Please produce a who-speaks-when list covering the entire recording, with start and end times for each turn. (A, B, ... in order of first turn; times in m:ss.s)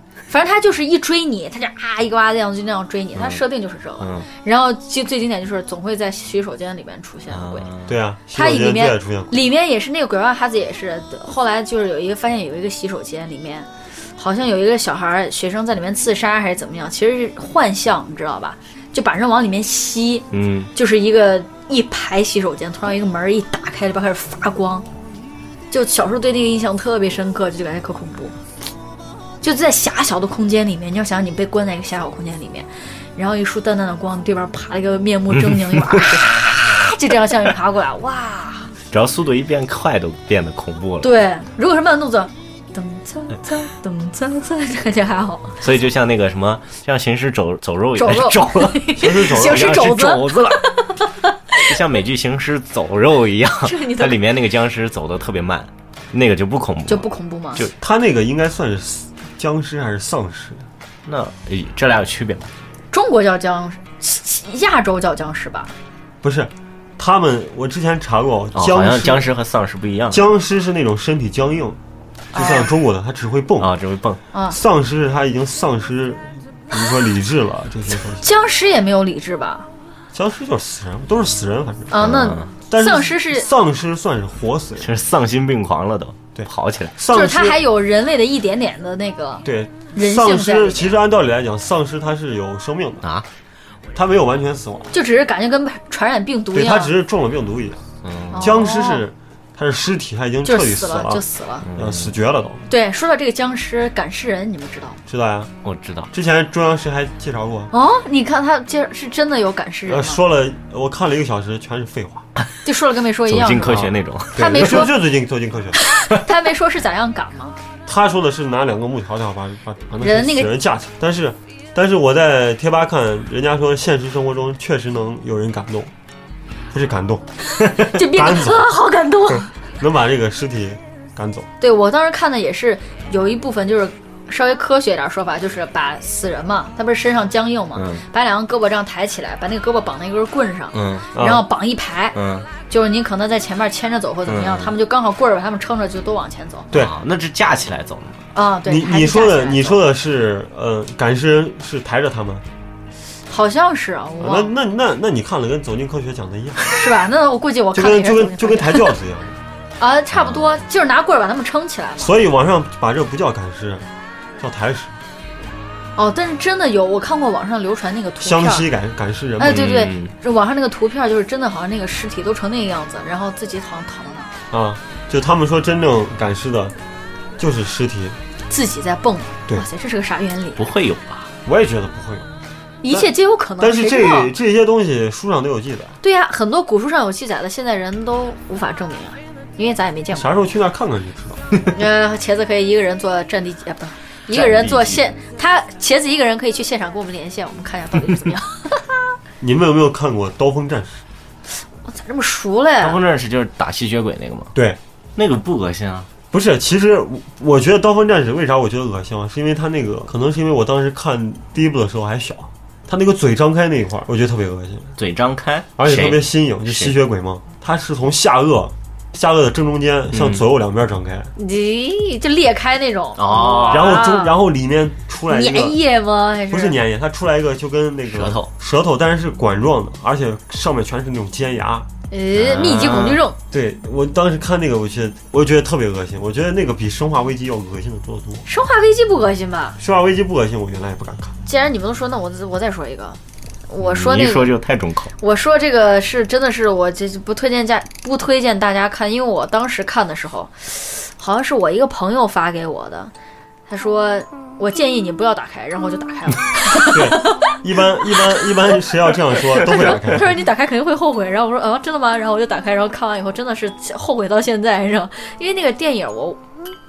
0:00.3-0:07.7 A
0:03.1-0:03.4 B
0:04.0-0:04.3 B
0:07.3-0:07.9 B
0:07.9-0:09.3 C
0:08.3-0:24.8 A
0:20.3-0:20.7 B
0:25.7-0:28.4 A
0:29.4-0:38.7 A
0:35.5-0:36.2 B
0:38.9-0:41.1 B
0:41.0-0:45.6 A
0:45.6-0:50.7 B
0:48.0-0:51.7 A
0:49.0-0:49.8 C
0:51.6-0:57.7 B
0:53.6-0:54.2 A
0:56.9-0:57.6 A
0:57.7-1:00.7 C
1:01.0-1:02.5 B
1:02.9-1:05.7 A
1:06.2-1:09.3 C
1:08.5-1:10.2 B
1:10.1-1:11.8 C
1:12.3-1:12.7 A
1:12.3-1:13.7 C
1:13.6-1:14.2 B
1:14.5-1:18.2 C
1:18.2-1:19.7 A
1:20.1-1:22.1 C
1:21.9-1:23.5 A
1:22.0-1:22.5 B
1:22.7-1:24.9 C
1:24.8-1:26.9 B
1:26.4-1:27.6 C
1:27.1-1:30.9 A
1:29.4-1:33.0 C
1:33.9-1:34.9 C
1:34.9-1:36.9 A
1:36.5-1:37.8 C
1:38.0-1:38.5 B
1:38.3-1:39.0 A
1:38.4-1:42.6 C
1:40.4-1:41.6 A
1:41.6-1:42.1 B
1:42.7-1:45.0 A
1:45.1-1:45.5 C
1:45.6-1:46.1 B
1:46.1-1:47.7 C
1:47.7-1:50.2 A
1:49.9-1:52.2 C
1:52.6-1:54.9 A
1:53.3-1:54.9 B
1:54.4-1:55.8 C
1:55.8-1:57.6 A
1:57.8-2:05.9 C
2:00.0-2:00.5 A
2:06.7-2:07.2 C
2:07.6-2:09.5 A
2:08.0-2:08.7 C
2:09.8-2:11.5 C
2:11.6-2:22.2 A
2:17.7-2:18.0 B
2:20.7-2:21.1 B
2:21.1-2:21.4 C
2:22.1-2:22.5 B
2:22.7-2:26.7 A
2:24.3-2:24.7 B
2:26.7-2:28.2 B
2:28.3-2:29.8 A
2:28.6-2:32.4 C
2:33.3-2:34.5 A
2:34.2-2:36.7 C
2:36.7-2:38.9 A
2:37.7-2:39.4 C
2:39.8-2:42.1 A
2:40.2-2:40.5 B
2:42.0-2:43.9 C
2:44.4-2:45.0 C
2:46.0-2:48.7 A
2:48.2-2:49.7 C
2:49.4-2:54.3 A
2:49.4-2:50.1 B
2:54.5-2:56.7 C
2:57.4-2:58.2 C
2:58.5-3:00.6 A
3:00.6-3:01.3 B
3:01.4-3:02.3 C
3:02.8-3:04.3 A
3:02.9-3:06.0 C
3:06.0-3:10.3 A
3:10.1-3:11.4 C
3:11.7-3:19.0 A
3:14.3-3:15.0 B
3:19.4-3:21.0 C
3:21.8-3:23.0 A
3:22.8-3:24.5 B
3:24.5-3:24.8 C
3:25.2-3:26.1 B
3:26.3-3:34.9 C
3:35.0-3:37.0 B
3:35.8-3:41.3 C
3:40.1-3:40.4 B
3:41.4-3:44.3 A
3:43.2-3:44.0 B
3:43.7-3:45.8 C
3:45.3-3:46.8 A
3:46.5-3:51.9 C
3:48.1-3:48.5 B
3:52.1-3:53.4 A
3:52.3-3:53.2 B
3:53.5-3:58.5 C
3:58.5-3:59.8 A
3:59.8-4:01.3 C
4:01.4-4:04.5 A
4:03.8-4:05.1 B
4:05.2-4:13.1 A
4:13.7-4:17.5 A
4:16.9-4:20.4 C
4:19.5-4:26.4 A